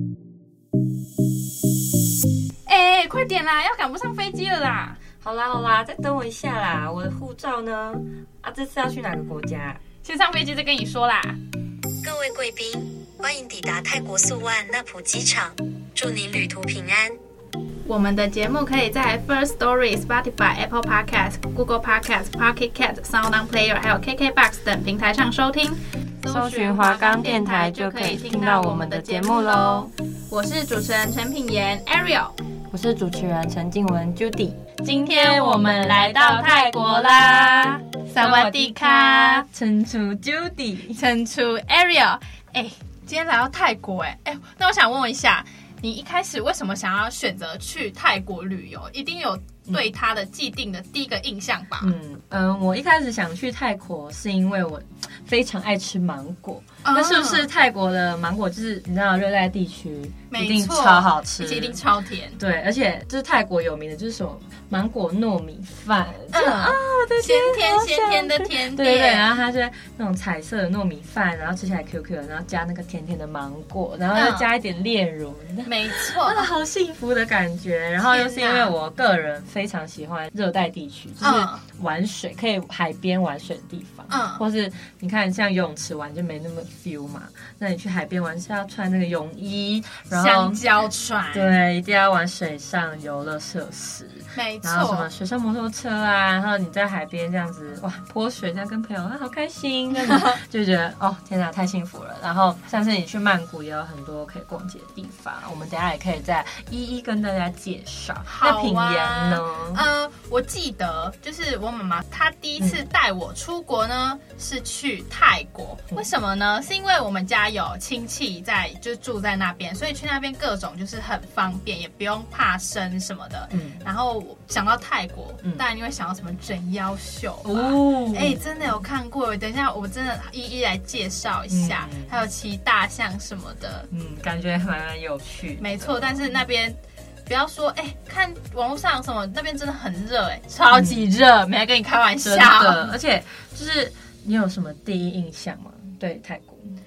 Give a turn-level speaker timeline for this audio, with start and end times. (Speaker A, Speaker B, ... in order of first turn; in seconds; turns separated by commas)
Speaker A: 2.7-5.0, Speaker B: 5.2-9.8, Speaker A: 10.0-11.4, Speaker C: 12.0-17.2, Speaker A: 17.9-32.4, Speaker B: 26.2-29.9, Speaker B: 32.7-41.0, Speaker A: 34.8-39.5, Speaker A: 40.9-51.9, Speaker B: 51.8-61.8, Speaker A: 56.8-57.4, Speaker A: 60.3-62.4, Speaker B: 62.4-90.6, Speaker A: 66.3-69.3, Speaker A: 74.1-74.5, Speaker A: 75.6-76.5, Speaker A: 78.0-78.7, Speaker A: 81.2-81.6, Speaker A: 84.1-84.4, Speaker A: 90.1-91.5, Speaker B: 91.3-109.8, Speaker A: 94.3-95.1, Speaker A: 108.3-133.9, Speaker B: 123.5-123.8, Speaker B: 127.4-128.7, Speaker B: 131.5-132.1, Speaker B: 133.9-136.3, Speaker A: 135.6-142.9, Speaker B: 140.7-141.0, Speaker B: 142.2-146.8